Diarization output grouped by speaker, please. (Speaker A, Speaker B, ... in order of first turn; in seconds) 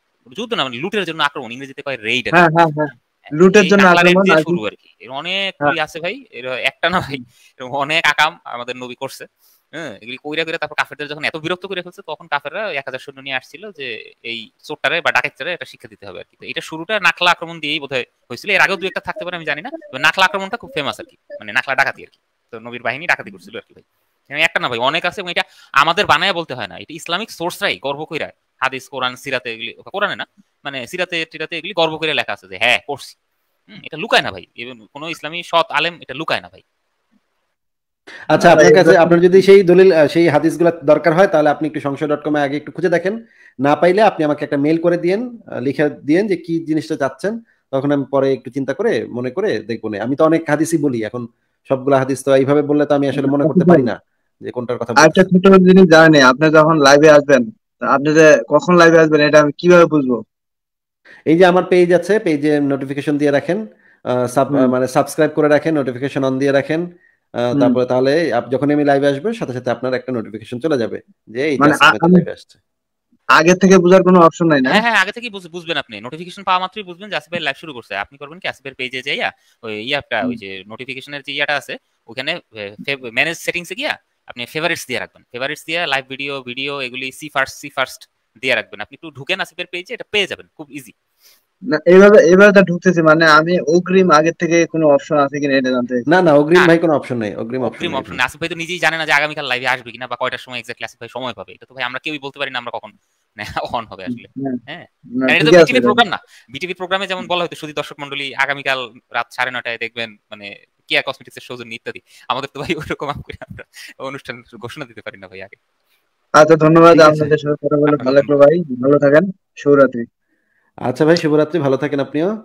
Speaker A: 0.3-2.5, 3.4-33.2, 33.7-36.6, 74.6-90.9, 97.6-115.6, 117.9-118.3
Speaker B: 2.3-4.6, 38.4-39.1, 53.2-53.9, 55.0-60.2, 71.6-72.2, 73.4-74.8, 91.7-96.0, 104.1-104.6, 105.2-106.0, 116.4-120.0
Speaker C: 38.3-55.3, 61.3-63.6, 64.2-66.8, 67.4-72.6, 96.1-98.2, 116.9-117.3, 120.8-122.3